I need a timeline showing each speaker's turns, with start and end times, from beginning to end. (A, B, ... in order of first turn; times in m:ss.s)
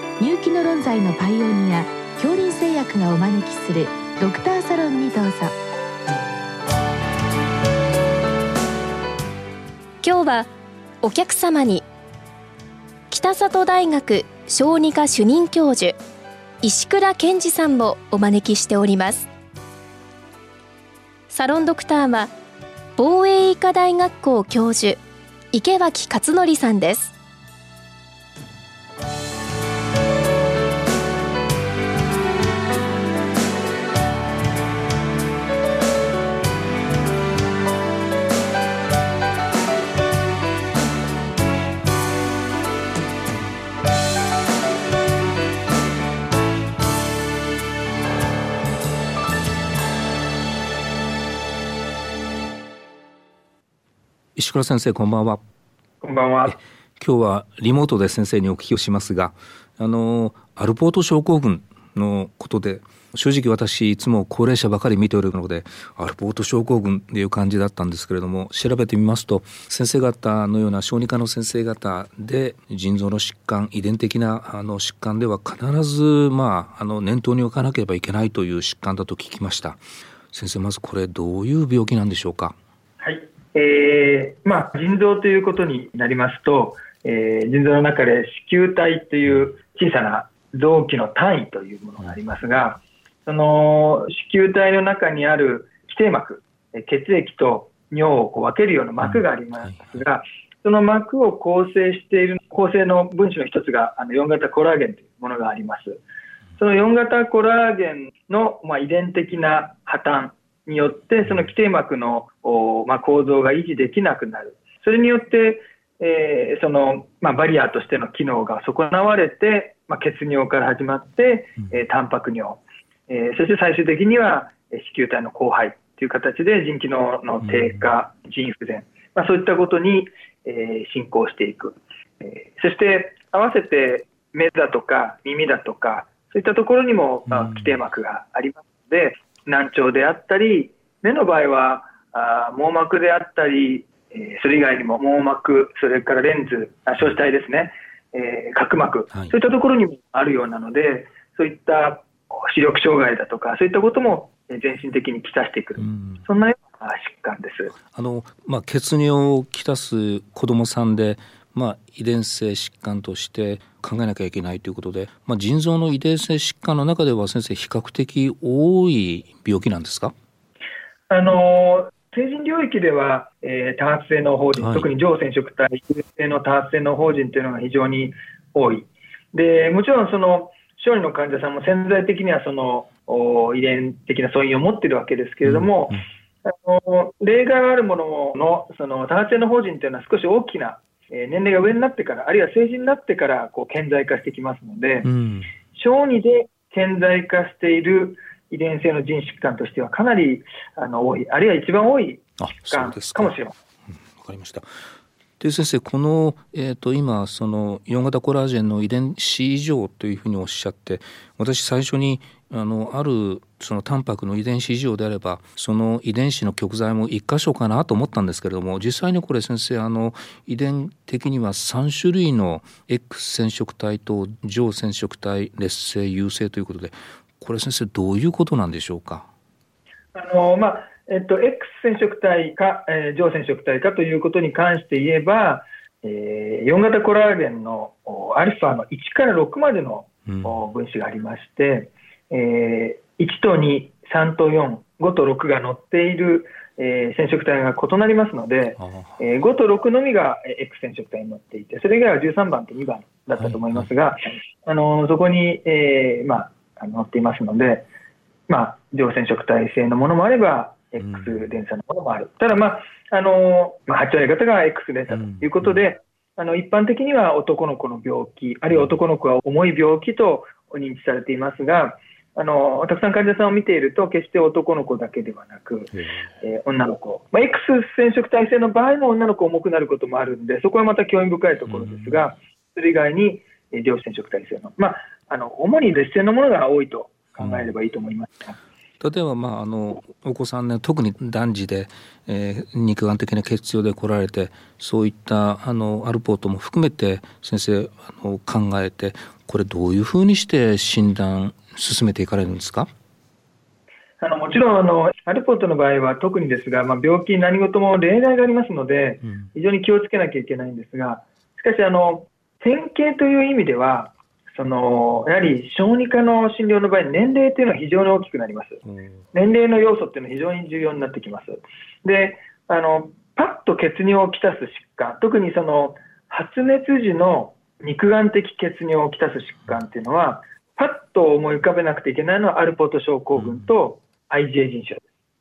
0:00.2-0:05.5 A
0:10.0-0:10.5 B
0:11.0-0:11.9 B
0:13.1-0:16.0 B
0:16.6-0:19.3 B
0:21.3-0:22.3 B
0:23.0-0:25.0 B
0:25.5-0:27.1 B
0:54.4-0:55.4 C
0:56.0-0:56.6 D
0:56.5-1:19.8 C
1:20.3-1:22.6 C
1:23.0-1:46.0 D
1:39.0-1:40.0 C
1:46.6-2:37.7 D
2:07.4-2:07.8 C
2:17.3-2:17.7 C
2:35.8-2:36.2 C
2:37.9-2:50.1 C
2:51.1-3:15.1 D
2:54.6-2:54.9 C
3:05.4-3:06.0 C
3:15.0-3:15.5 C
3:15.7-3:23.6 D
3:22.4-3:23.3 C
3:24.2-3:24.7 C
3:25.4-3:49.3 C
3:50.1-4:17.9 D
4:00.3-4:00.6 C
4:08.8-4:09.2 C
4:13.4-4:13.9 C
4:18.5-4:48.6 D
4:21.0-4:21.4 C
4:25.1-4:25.8 C
4:41.7-4:42.2 C
4:47.4-4:47.7 C
4:49.0-5:02.9 C
5:04.2-5:35.1 D
5:18.8-5:19.3 C
5:33.4-5:33.6 C